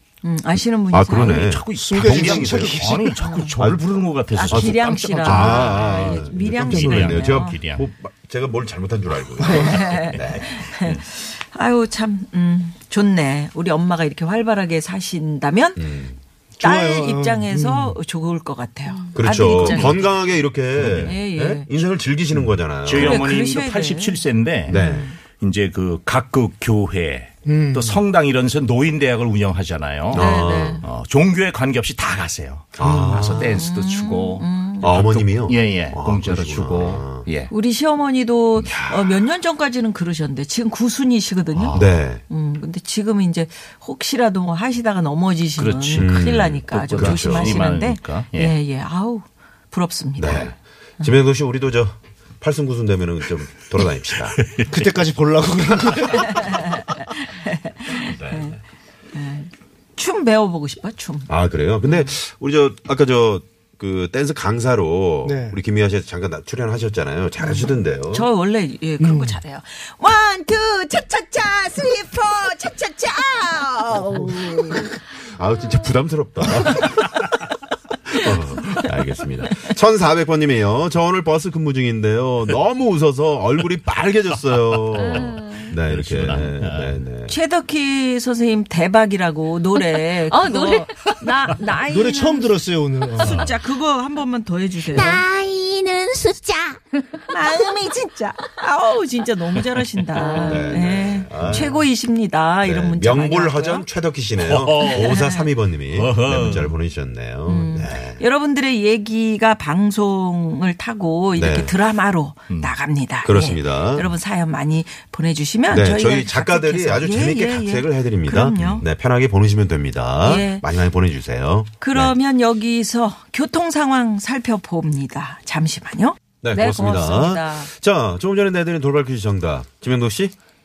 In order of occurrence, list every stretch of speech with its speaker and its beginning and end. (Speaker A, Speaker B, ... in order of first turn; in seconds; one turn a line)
Speaker A: 0.2-1.5
Speaker B: 0.9-2.8
Speaker C: 1.1-7.8
Speaker D: 1.8-3.2
Speaker A: 3.2-3.6
Speaker B: 3.6-10.4
Speaker A: 4.3-7.6
Speaker A: 9.4-15.8
Speaker C: 10.6-11.0
Speaker B: 15.8-16.2
Speaker D: 16.6-18.0
Speaker A: 16.6-20.0
Speaker B: 19.1-23.3
Speaker C: 19.7-20.0
Speaker C: 20.7-21.2
Speaker A: 21.0-21.7
Speaker C: 22.3-37.5
Speaker A: 22.9-25.2
Speaker B: 24.7-25.1
Speaker D: 27.4-28.1
Speaker B: 30.1-30.8
Speaker A: 30.1-30.8
Speaker B: 32.8-33.6
Speaker D: 32.8-33.3
Speaker A: 33.6-35.0
Speaker B: 34.8-37.3
Speaker A: 37.5-50.5
Speaker C: 38.6-38.8
Speaker B: 41.7-42.2
Speaker C: 45.6-48.5
Speaker B: 45.9-47.6
Speaker B: 50.2-54.4
Speaker C: 54.3-54.6
Speaker D: 54.7-56.5
Speaker A: 56.2-58.6
Speaker B: 58.1-58.6
Speaker A: 59.1-61.3
Speaker B: 61.3-68.3
Speaker D: 65.2-65.6
Speaker A: 67.4-75.0
Speaker D: 69.0-69.4
Speaker B: 75.4-77.2
Speaker B: 78.2-87.4
Speaker C: 85.0-87.0
Speaker A: 87.3-95.2
Speaker D: 91.9-93.5
Speaker C: 93.2-93.5
Speaker E: 94.9-97.2
Speaker A: 97.3-103.9
Speaker E: 100.2-100.6
Speaker B: 100.4-101.8
Speaker B: 102.6-108.2
Speaker C: 104.4-105.3
Speaker A: 104.8-105.5
Speaker C: 105.9-106.8
Speaker A: 107.5-118.8
Speaker B: 111.3-111.7
Speaker B: 113.2-114.1
Speaker B: 115.7-122.2
Speaker A: 120.2-120.7
Speaker A: 121.8-127.7
Speaker B: 126.4-130.3